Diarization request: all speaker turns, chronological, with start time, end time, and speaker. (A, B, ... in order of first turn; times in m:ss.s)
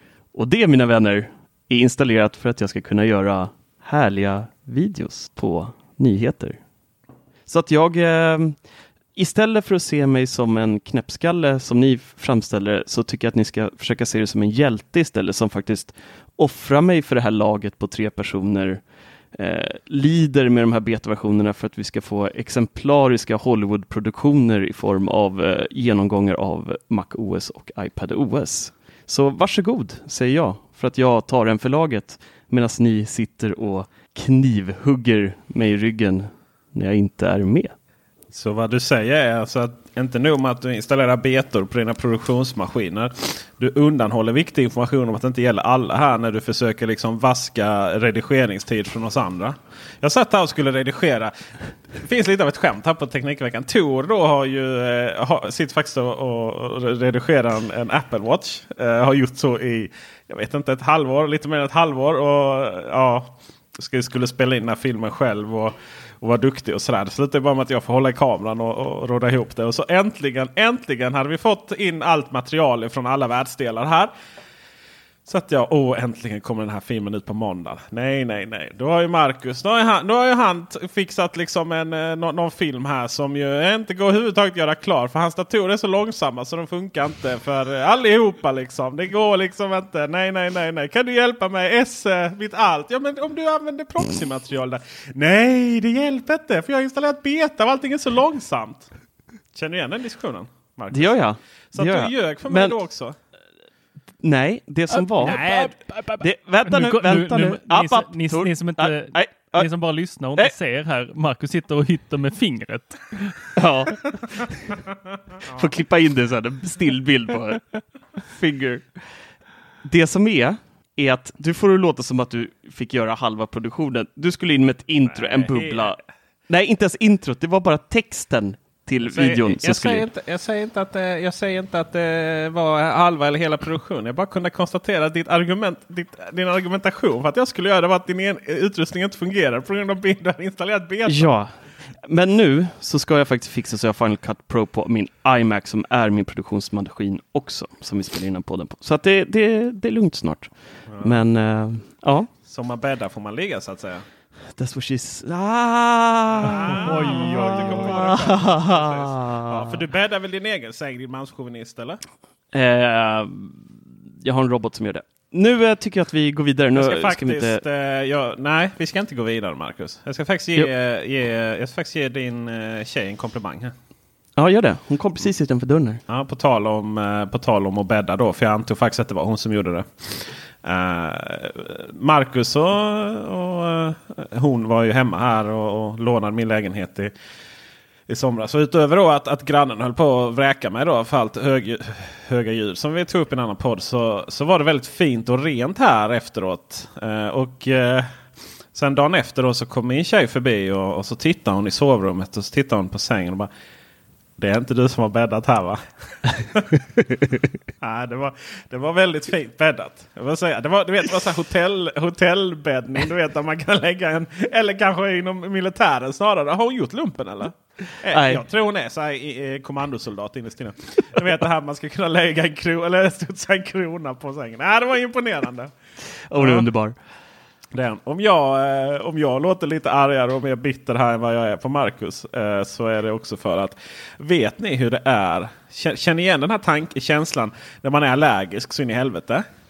0:00.3-0:06.6 A
0:07.5-0:08.6 A
0:09.2-0:18.8 A
0:19.3-0:37.7 A
0:38.3-0:51.3 B
0:51.9-1:14.1 B
1:15.3-1:38.9 B
1:39.5-1:43.2 B
1:40.9-1:42.8 A
1:44.2-1:45.5 A
1:45.0-1:53.5 C
1:45.2-1:45.8 B
1:46.2-1:49.7 A
1:53.6-1:54.1 A
1:55.5-1:59.0 A
1:59.8-2:10.1 A
2:05.1-2:06.0 B
2:09.0-2:21.3 B
2:21.1-2:21.6 A
2:22.1-2:32.3 A
2:30.9-2:31.2 B
2:32.4-2:34.0 B
2:34.6-2:39.8 A
2:36.3-2:42.0 B
2:36.5-2:38.2 C
2:42.5-2:43.7 A
2:44.2-2:47.6 A
2:46.8-2:53.7 B
2:54.4-2:56.0 A
2:56.1-3:07.1 B
3:08.1-3:18.1 B
3:18.7-3:23.5 B
3:24.4-3:26.8 B
3:27.8-3:45.7 B
3:38.1-3:38.4 A
3:46.3-3:47.0 A
3:46.4-3:46.7 B
3:47.7-3:59.4 B